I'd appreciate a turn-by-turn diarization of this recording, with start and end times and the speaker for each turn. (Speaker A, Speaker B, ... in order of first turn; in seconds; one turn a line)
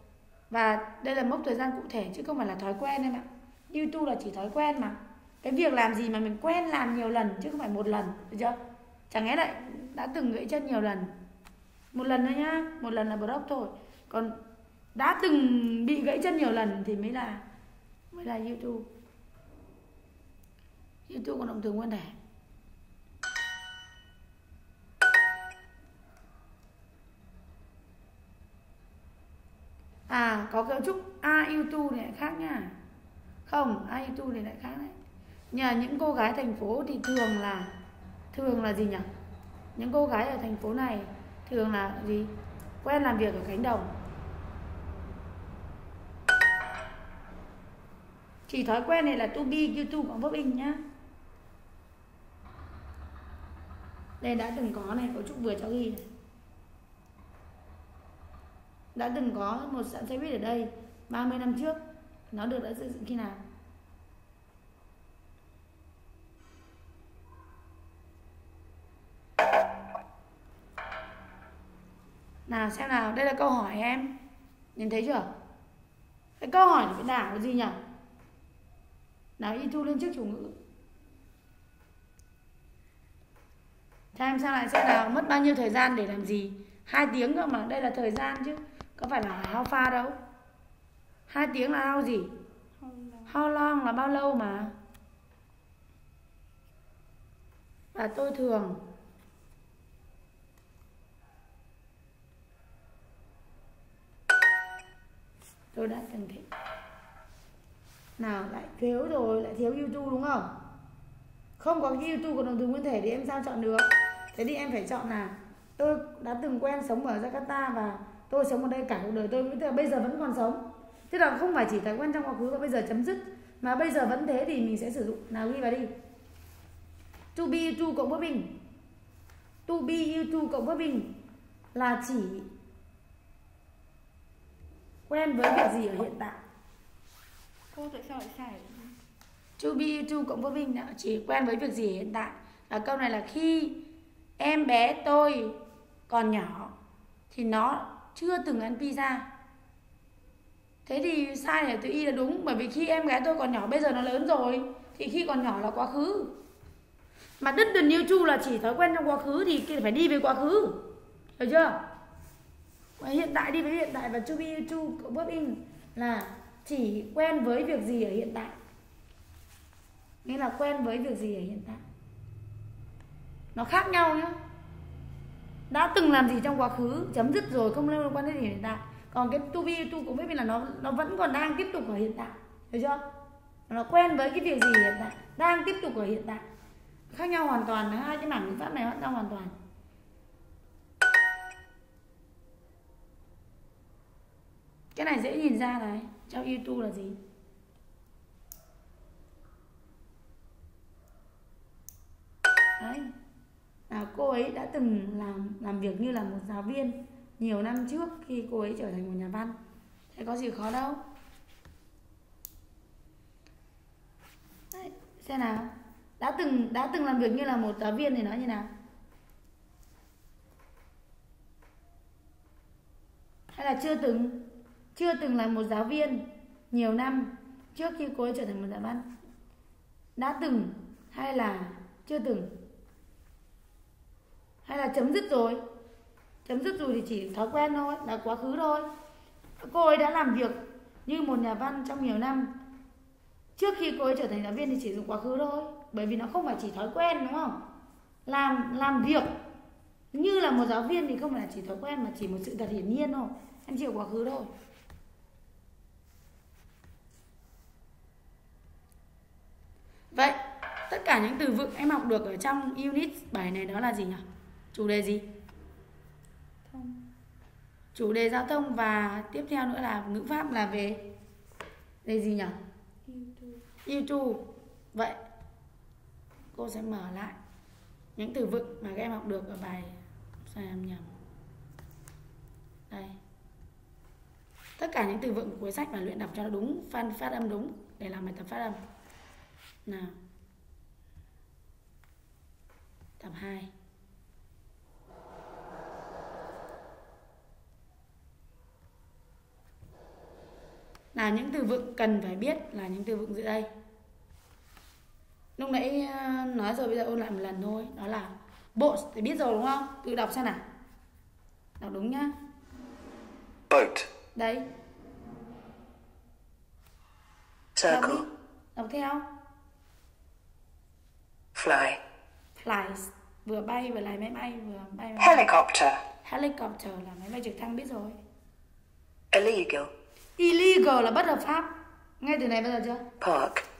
Speaker A: 0.5-8.6
Speaker A: 9.1-11.1
Speaker A: 11.9-14.4
Speaker A: 14.9-17.4
Speaker A: 18.1-18.9
Speaker A: 21.1-22.1
Speaker A: 30.1-32.8
Speaker A: 33.5-35.0
Speaker A: 35.5-37.7
Speaker A: 38.3-39.1
Speaker A: 39.8-42.3
Speaker A: 42.8-43.9
Speaker A: 48.5-50.8
Speaker A: 54.2-56.0
Speaker A: 59.0-61.8
Speaker A: 62.3-63.4
Speaker A: 72.5-74.1
Speaker A: 74.8-75.3
Speaker A: 76.4-77.8
Speaker A: 79.4-80.5
Speaker A: 84.1-90.2
Speaker A: 91.3-92.3
Speaker B: 92.8-93.4
Speaker A: 93.3-94.7
Speaker A: 97.9-98.8
Speaker A: 105.7-106.5
Speaker A: 108.2-110.5
Speaker A: 111.6-125.9
Speaker A: 127.3-128.6
Speaker A: 129.7-131.1
Speaker A: 131.7-132.5
Speaker A: 135.1-136.4
Speaker B: 137.7-138.9
Speaker A: 139.6-143.8
Speaker A: 144.4-145.6
Speaker A: 146.1-146.7
Speaker A: 147.3-149.3
Speaker A: 150.9-156.3
Speaker A: 157.4-160.9
Speaker A: 161.4-161.8
Speaker A: 163.0-168.6
Speaker A: 170.2-171.8
Speaker A: 173.6-174.4
Speaker A: 175.7-183.0
Speaker A: 183.7-186.4
Speaker A: 187.1-189.6
Speaker A: 194.9-197.2
Speaker A: 202.8-203.1
Speaker A: 203.9-209.6
Speaker A: 210.1-211.0
Speaker A: 214.7-218.7
Speaker A: 223.5-229.1
Speaker A: 230.2-232.5
Speaker A: 234.6-235.6
Speaker A: 236.4-238.9
Speaker A: 239.6-242.5
Speaker A: 243.6-247.6
Speaker A: 248.3-249.3
Speaker A: 250.1-254.5
Speaker A: 260.1-260.4
Speaker A: 260.9-265.3
Speaker B: 266.6-267.1
Speaker A: 267.9-271.0
Speaker A: 272.1-272.6
Speaker B: 273.1-273.7
Speaker A: 273.9-275.2
Speaker A: 276.5-277.4
Speaker A: 278.2-279.9
Speaker A: 280.5-281.1
Speaker A: 282.9-283.2
Speaker A: 284.8-288.8
Speaker A: 289.9-290.1
Speaker A: 293.2-293.7
Speaker A: 301.1-303.7
Speaker A: 305.6-310.6
Speaker A: 311.8-312.3
Speaker A: 314.4-314.6
Speaker C: 317.8-318.2
Speaker A: 317.9-319.3
Speaker C: 321.6-321.9
Speaker A: 322.6-325.5
Speaker C: 325.2-325.9
Speaker A: 326.2-328.2
Speaker C: 329.3-329.9
Speaker A: 330.4-333.1
Speaker C: 333.2-333.6